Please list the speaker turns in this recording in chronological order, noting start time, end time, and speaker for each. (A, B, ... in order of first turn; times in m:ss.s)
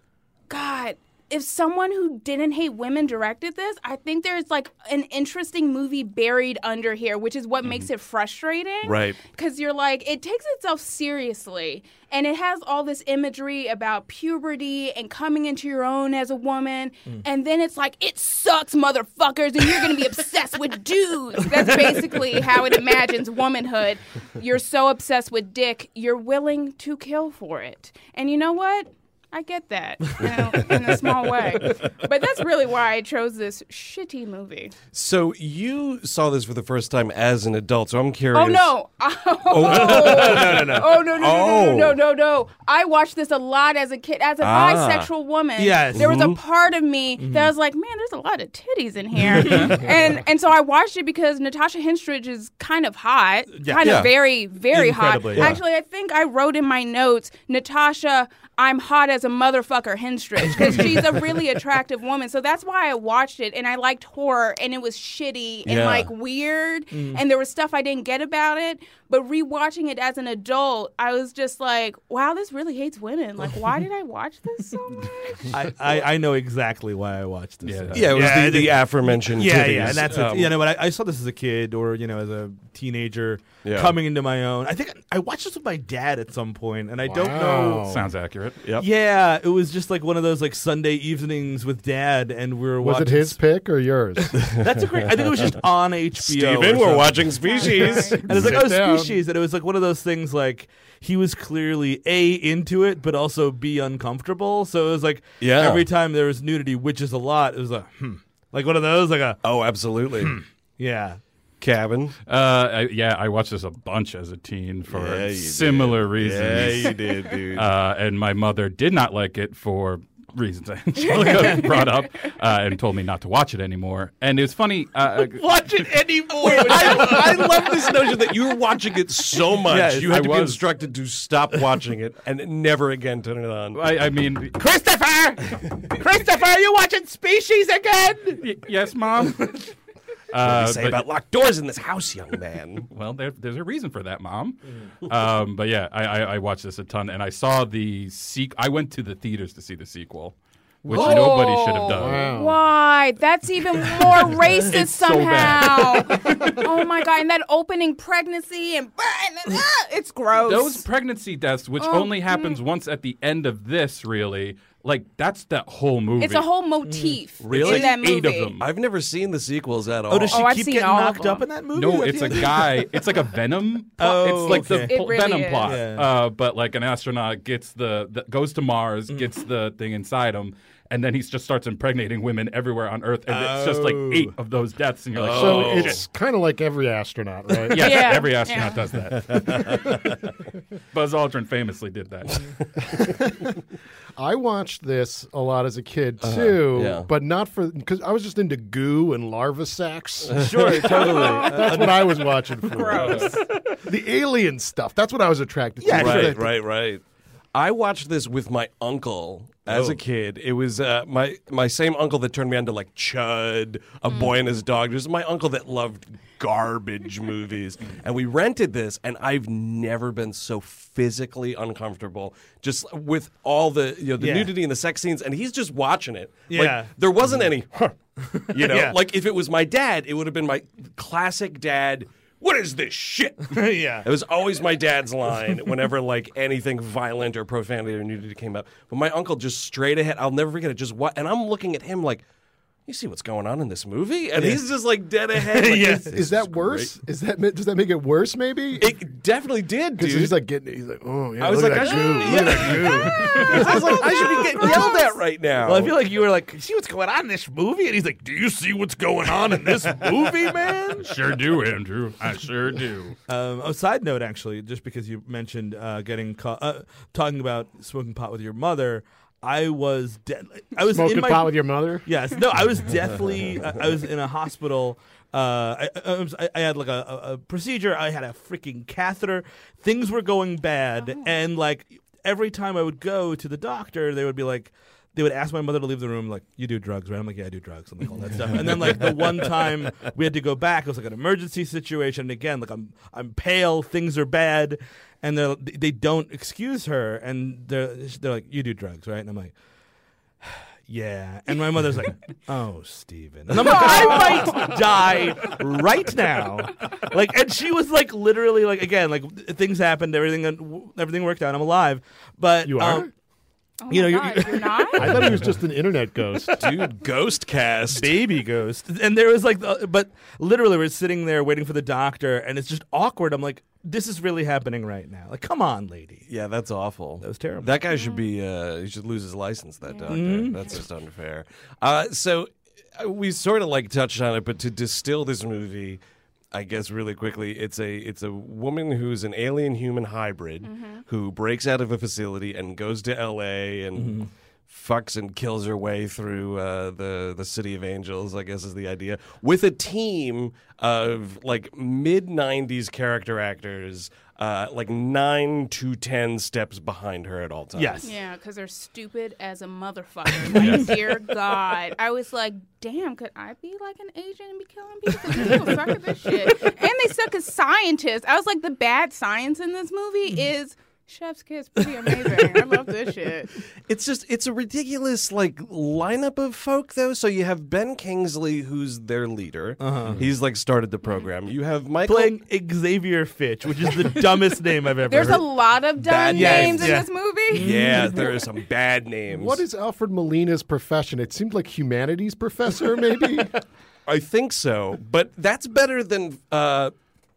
0:00.5-0:34.8 A
0:08.8-0:09.2 B
0:34.9-0:38.7 B
0:38.3-1:16.0 A
0:39.5-0:42.0 B
0:39.6-0:41.0 C
0:44.4-0:45.1 B
0:45.6-0:46.1 C
0:46.0-0:46.4 B
0:47.2-0:47.5 C
0:49.3-0:49.9 C
0:53.6-0:54.1 C
0:53.8-0:54.1 B
0:54.7-0:55.6 C
1:00.7-1:01.0 C
1:05.6-1:06.1 B
1:06.9-1:07.2 C
1:15.5-1:27.9 C
1:17.6-1:18.4 D
1:18.0-1:20.6 B
1:23.6-1:24.0 B
1:27.0-1:28.1 E
1:27.8-1:28.6 D
1:28.8-1:33.4 C
1:32.8-1:34.5 E
1:34.5-1:37.3 C
1:34.6-1:35.4 B
1:36.2-1:38.6 B
1:37.4-1:38.2 A
1:37.8-1:39.2 E
1:38.1-1:49.4 C
1:45.4-1:45.9 B
1:49.4-1:50.4 B
1:50.2-1:51.2 C
1:51.6-1:52.2 B
1:52.3-2:05.9 D
1:54.9-1:57.7 B
2:01.0-2:01.9 A
2:01.1-2:01.8 C
2:05.1-2:07.9 C
2:06.4-2:13.8 B
2:09.7-2:10.1 C
2:10.1-2:10.6 D
2:13.7-2:14.6 D
2:15.9-2:18.4 C
2:18.4-2:19.6 D
2:19.4-2:19.6 C
2:20.3-2:21.1 D
2:20.4-2:22.9 B
2:22.9-2:32.3 D
2:30.9-2:40.8 A
2:32.0-2:32.6 E
2:34.6-2:36.7 D
2:40.4-2:46.5 D
2:41.8-2:42.6 A
2:46.2-2:48.6 A
2:46.9-2:47.2 C
2:47.4-2:48.0 B
2:47.5-2:48.6 D
2:48.6-2:50.5 B
2:50.1-2:52.7 C
2:50.3-2:51.5 A
2:51.7-3:06.0 D
2:54.0-2:55.0 C
2:54.4-2:55.8 A
2:55.6-2:56.1 C
2:59.1-2:59.3 C
3:03.3-3:04.4 C
3:05.1-3:06.0 B
3:05.3-3:08.2 E
3:07.7-3:10.1 D
3:07.7-3:08.8 A
3:09.1-3:10.2 B
3:10.9-3:12.5 D
3:12.9-3:13.5 E
3:14.2-3:26.5 E
3:16.2-3:17.1 B
3:20.3-3:21.8 B
3:20.3-3:22.4 C
3:20.9-3:21.7 A
3:22.7-3:23.4 A
3:22.9-3:23.3 D
3:25.8-3:26.4 C
3:25.9-3:27.0 B
3:27.5-4:02.2 B
3:29.7-3:30.0 C
3:34.1-3:34.4 A
3:44.2-3:44.5 C
3:46.5-3:46.9 C
3:48.3-3:49.0 C
3:53.5-3:54.1 C
4:02.9-4:06.9 B
4:05.5-4:06.1 C
4:06.0-4:09.0 E
4:08.8-4:10.4 B
4:10.0-4:13.8 E
4:11.4-4:16.0 B
4:11.8-4:15.2 A
4:12.3-4:15.0 C
4:15.6-4:21.1 C
4:21.0-4:23.2 D
4:23.3-4:59.5 C
4:30.9-4:32.1 E
4:41.0-4:41.3 A
4:48.5-4:49.0 B
5:00.4-5:13.1 C
5:03.6-5:04.6 A
5:12.6-5:13.1 E
5:13.8-5:15.2 A
5:13.9-5:15.5 C
5:15.0-5:16.7 E
5:16.6-5:18.3 B
5:17.9-5:26.2 C
5:26.3-5:36.0 B
5:27.2-5:27.7 C
5:27.9-5:28.3 A
5:29.8-5:30.8 A
5:30.1-5:30.6 C
5:36.5-5:58.1 B
5:40.6-5:41.0 A
5:44.0-5:44.3 C
5:57.7-5:58.1 C
5:58.0-6:13.5 A
6:00.6-6:00.8 C
6:05.4-6:05.7 C
6:12.1-6:12.6 C
6:13.8-6:22.4 B
6:19.8-6:20.3 C
6:22.0-6:25.6 C
6:25.0-6:27.7 A
6:26.0-6:27.0 B
6:26.2-6:28.4 C
6:27.5-6:29.6 B
6:29.3-6:33.6 E
6:34.1-6:36.9 B